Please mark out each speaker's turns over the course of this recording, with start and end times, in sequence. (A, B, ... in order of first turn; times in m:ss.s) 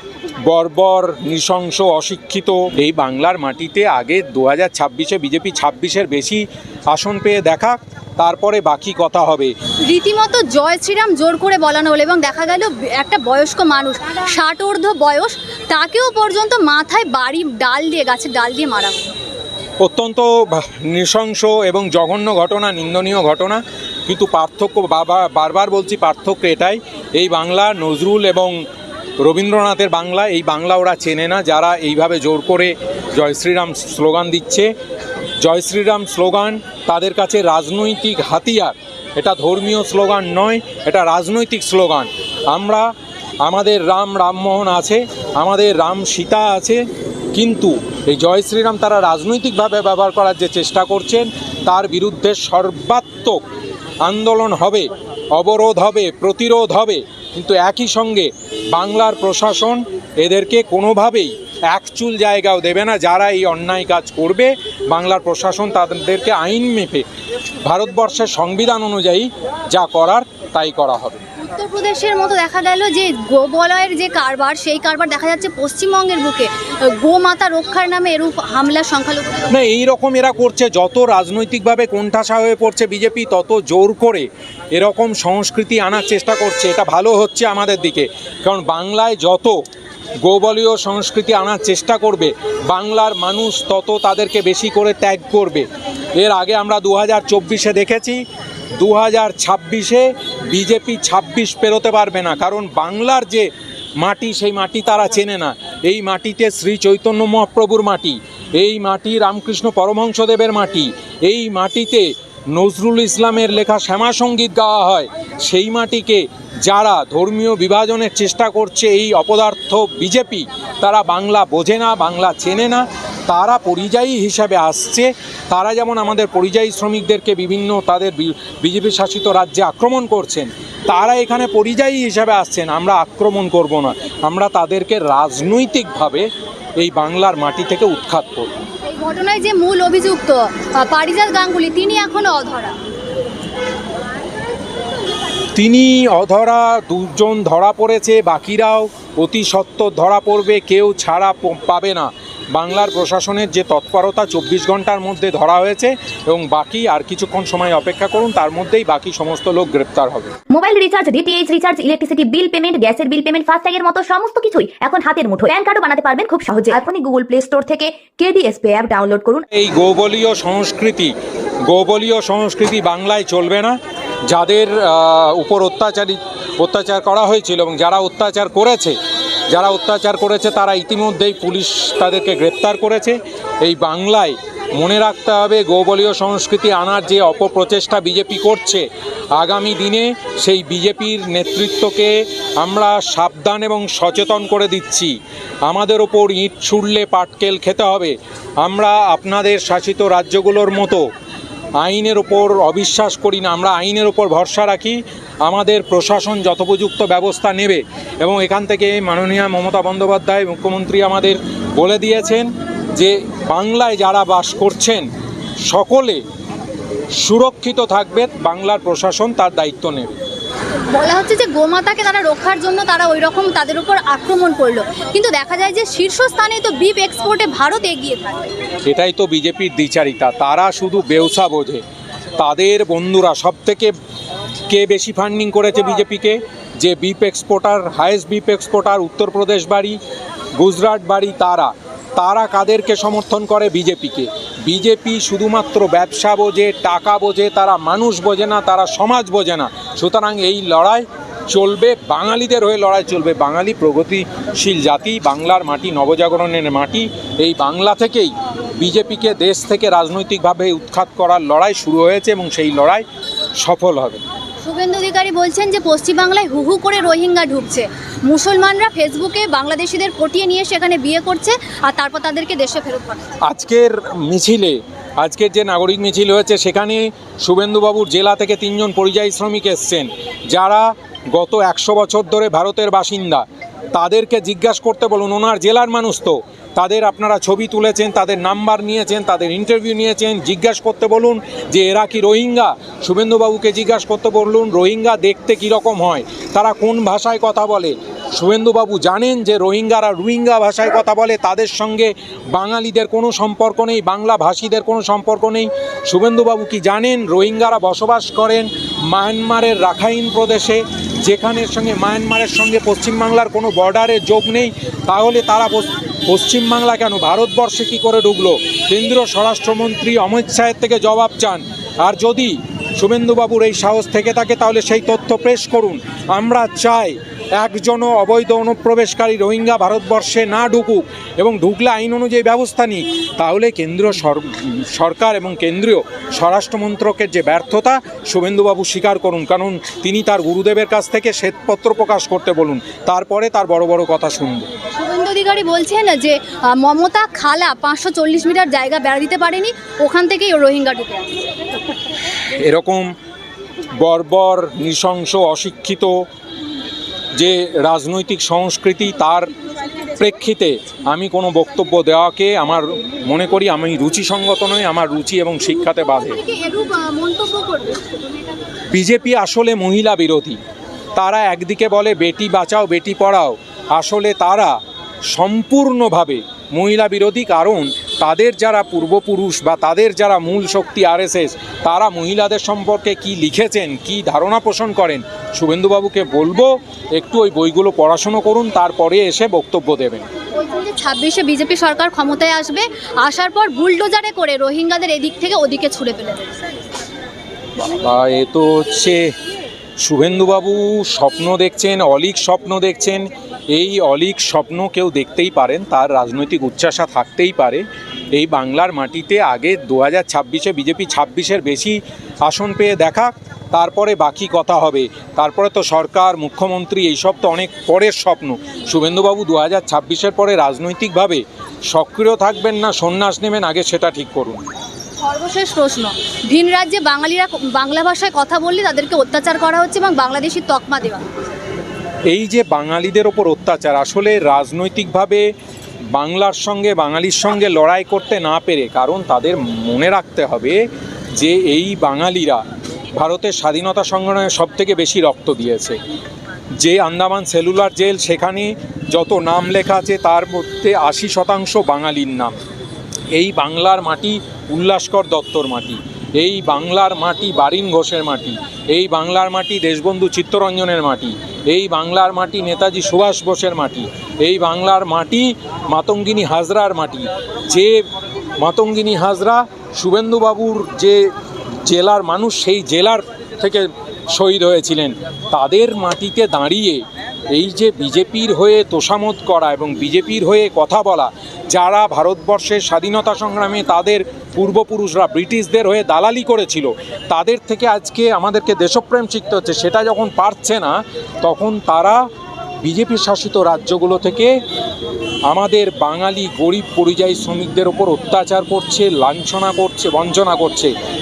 0:00.5-0:09.5 A
0:09.8-0:19.1 B
0:19.8-0:28.6 A
0:29.2-0:34.7 A
0:35.4-0:42.9 A
0:43.4-0:46.8 A
0:47.4-0:53.4 A
0:54.0-1:07.0 A
1:07.6-1:11.2 A
1:11.4-1:19.5 B
1:19.5-1:29.6 A
1:30.2-1:38.2 A
1:38.8-2:16.3 A
2:16.8-2:18.5 A
2:18.9-2:22.8 B
2:25.6-2:40.3 A
2:40.5-2:49.4 C
2:49.5-2:51.1 A
2:51.7-2:53.8 A
2:54.3-2:59.0 A
2:59.5-3:21.0 A
3:21.8-3:35.1 A
3:35.7-3:36.2 A
3:37.2-3:40.2 A
3:40.9-3:48.5 B
3:48.9-3:51.8 A
3:52.4-3:53.9 A
3:54.7-4:00.0 A
4:00.6-4:23.0 A
4:23.6-4:24.2 A
4:24.6-4:33.3 B
4:33.4-5:44.7 A
5:45.0-5:51.4 B
5:52.5-5:53.1 A
5:54.0-5:56.3 A
5:57.4-5:59.5 A
6:00.1-6:06.4 A
6:05.8-6:08.4 B
6:08.9-6:10.6 A
6:11.2-6:14.8 A
6:15.3-6:30.3 A
6:30.6-6:36.5 B
6:37.9-6:39.3 A
6:40.0-7:04.7 A
7:05.2-7:11.3 B
7:12.3-7:15.4 A
7:16.1-7:20.8 A
7:21.4-7:22.6 A
7:23.2-7:26.0 A
7:26.8-7:32.6 A
7:33.3-7:48.1 A
7:48.6-7:51.3 A
7:51.8-8:12.2 A
8:12.8-8:14.6 A
8:15.5-8:20.9 A